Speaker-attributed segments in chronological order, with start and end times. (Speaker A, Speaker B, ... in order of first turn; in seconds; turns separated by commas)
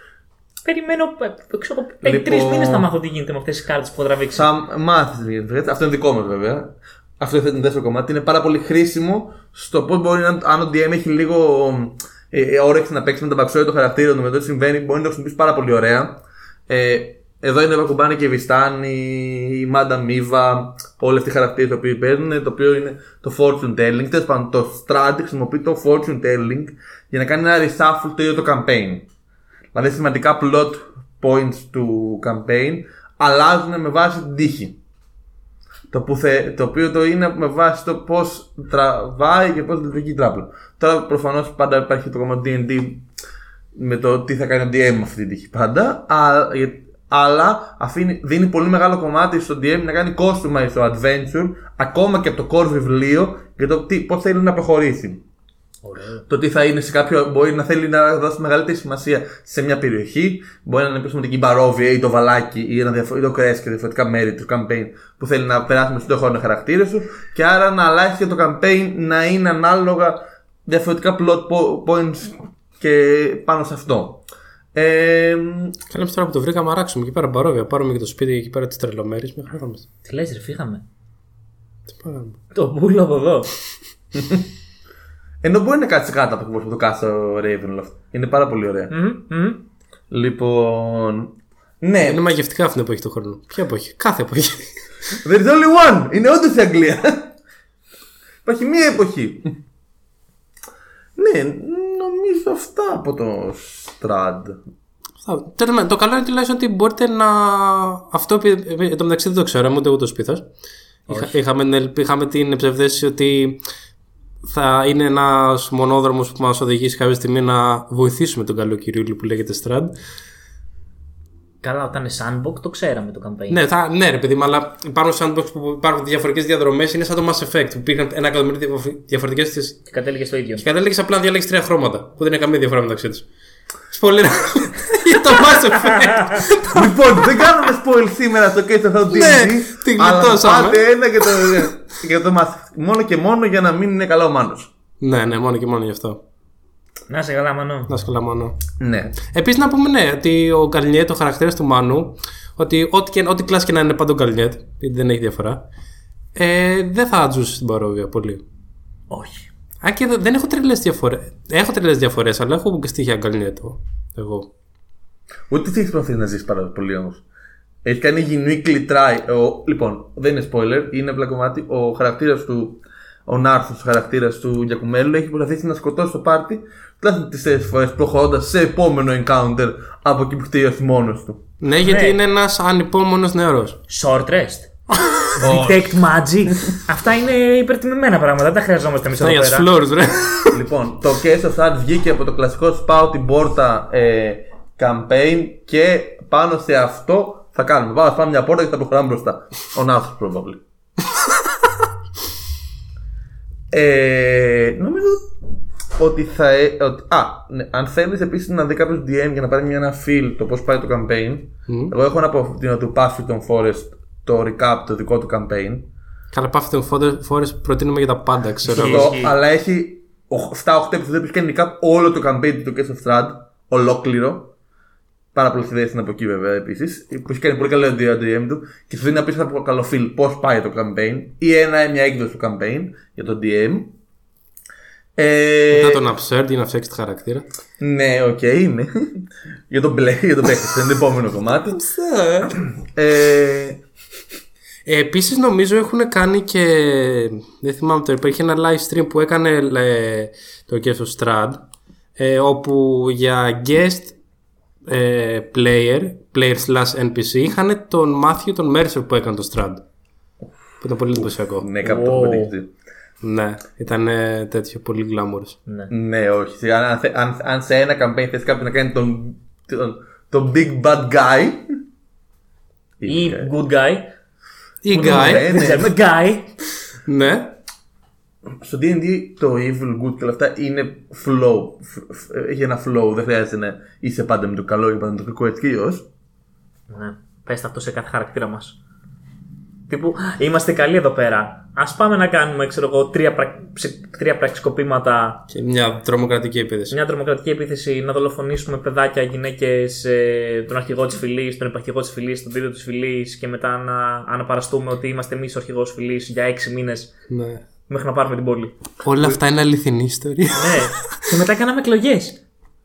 Speaker A: 0.6-4.5, Speaker B: 2.0-2.9, Speaker B: 4.3-29.1, Speaker B: 29.7-34.8, Speaker B: 35.9-43.0, Speaker B: 43.7-55.2, Speaker A: 55.8-56.2, Speaker B: 56.3-75.7, Speaker C: 75.9-79.8, Speaker A: 80.0-80.8, Speaker C: 81.9-82.4, Speaker A: 82.5-83.5, Speaker B: 84.1-84.4, Speaker B: 85.4-88.9, Speaker A: 88.9-89.6, Speaker B: 90.1-92.2, Speaker C: 92.0-94.7, Speaker B: 95.2-97.3, Speaker B: 98.4-99.5, Speaker B: 101.2-104.6, Speaker C: 105.2-110.5, Speaker C: 111.1-113.6, Speaker B: 111.1-111.3, Speaker C: 114.4-119.9, Speaker A: 121.6-123.6, Speaker C: 123.5-129.9, Speaker A: 129.9-130.6, Speaker C: 130.6-133.3, Speaker C: 133.9-136.9, Speaker B: 136.7-144.7, Speaker C: 139.1-141.7, Speaker C: 145.0-146.2, Speaker A: 147.1-147.9, Speaker C: 147.9-148.6, Speaker B: 148.8-149.2, Speaker C: 149.3-155.6, Speaker C: 156.3-158.4, Speaker B: 159.1-159.5, Speaker C: 159.8-164.5, Speaker B: 165.5-167.2, Speaker B: 167.8-181.4, Speaker C: 181.6-183.8, Speaker A: 181.8-182.2, Speaker A: 183.9-184.7, Speaker C: 184.9-185.4, Speaker A: 185.4-189.7, Speaker B: 185.4-185.9, Speaker C: 189.2-190.6, Speaker B: 190.5-200.6, Speaker B: 203.7-205.3, Speaker B: 206.0-215.9, Speaker C: 211.7-211.9, Speaker C: 216.3-219.2, Speaker A: 218.7-219.3, Speaker B: 218.7-224.5, Speaker B: 225.3-233.9, Speaker B: 235.2-236.1, Speaker C: 235.7-237.4, Speaker B: 237.8-241.8, Speaker C: 241.7-242.5, Speaker B: 242.9-243.8, Speaker C: 244.8-251.6, Speaker C: 252.2-254.1, Speaker C: 254.8-259.8, Speaker C: 260.8-261.7, Speaker B: 261.1-262.7, Speaker A: 261.8-262.5, Speaker C: 263.2-265.6, Speaker B: 265.9-271.7, Speaker B: 273.0-273.5, Speaker A: 273.1-274.1, Speaker C: 274.8-275.5, Speaker B: 274.9-275.9, Speaker A: 274.9-276.5, Speaker C: 277.0-277.5, Speaker B: 278.6-286.1, Speaker A: 286.9-288.8, Speaker A: 289.9-295.4, Speaker C: 295.5-296.9, Speaker A: 296.9-307.1, Speaker C: 307.3-307.6, Speaker A: 307.9-308.7, Speaker C: 309.0-311.1, Speaker A: 310.5-312.4